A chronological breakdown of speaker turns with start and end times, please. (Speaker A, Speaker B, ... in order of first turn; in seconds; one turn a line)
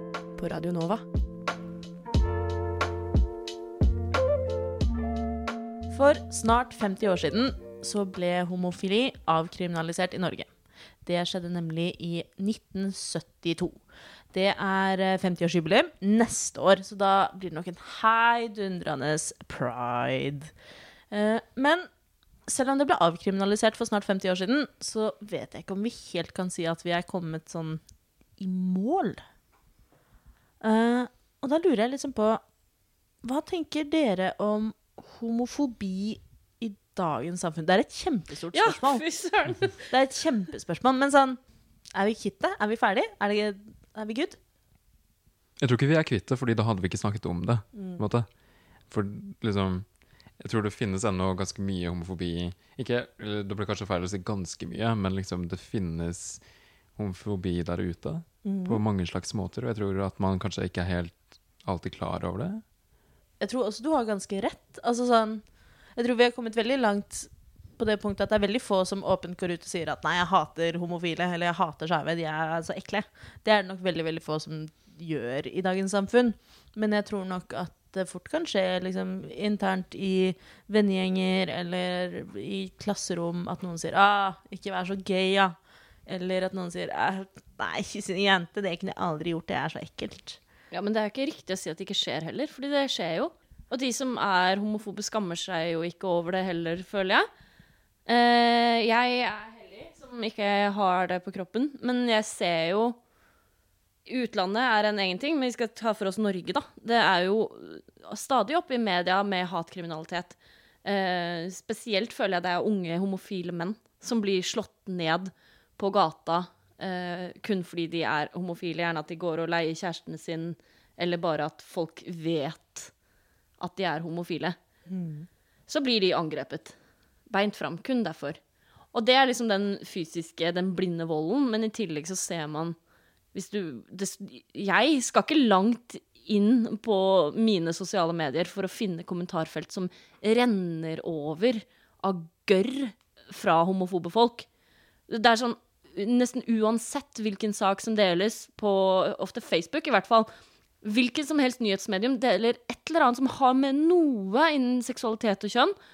Speaker A: 0.4-1.0
Speaker A: 5.9-10.5
Speaker A: 11.1-13.8
Speaker A: 14.3-20.5
Speaker A: 21.1-21.9
Speaker A: 22.5-27.8
Speaker A: 28.4-29.2
Speaker A: 30.6-32.4
Speaker A: 33.2-39.0
Speaker B: 38.5-39.8
Speaker A: 39.9-41.4
Speaker A: 41.9-44.4
Speaker C: 45.6-48.3
Speaker A: 47.7-48.0
Speaker C: 48.9-49.9
Speaker C: 50.4-56.4
Speaker C: 57.0-62.6
Speaker A: 58.4-58.8
Speaker A: 63.4-65.4
Speaker A: 66.0-85.5
Speaker A: 86.1-90.4
Speaker B: 90.7-97.3
Speaker B: 98.1-103.0
Speaker B: 104.1-122.9
Speaker B: 123.6-124.6
Speaker A: 124.9-125.3
Speaker B: 125.7-126.8
Speaker B: 127.3-128.4
Speaker B: 128.9-132.8
Speaker B: 133.3-144.5
Speaker B: 145.1-150.3
Speaker B: 150.8-155.8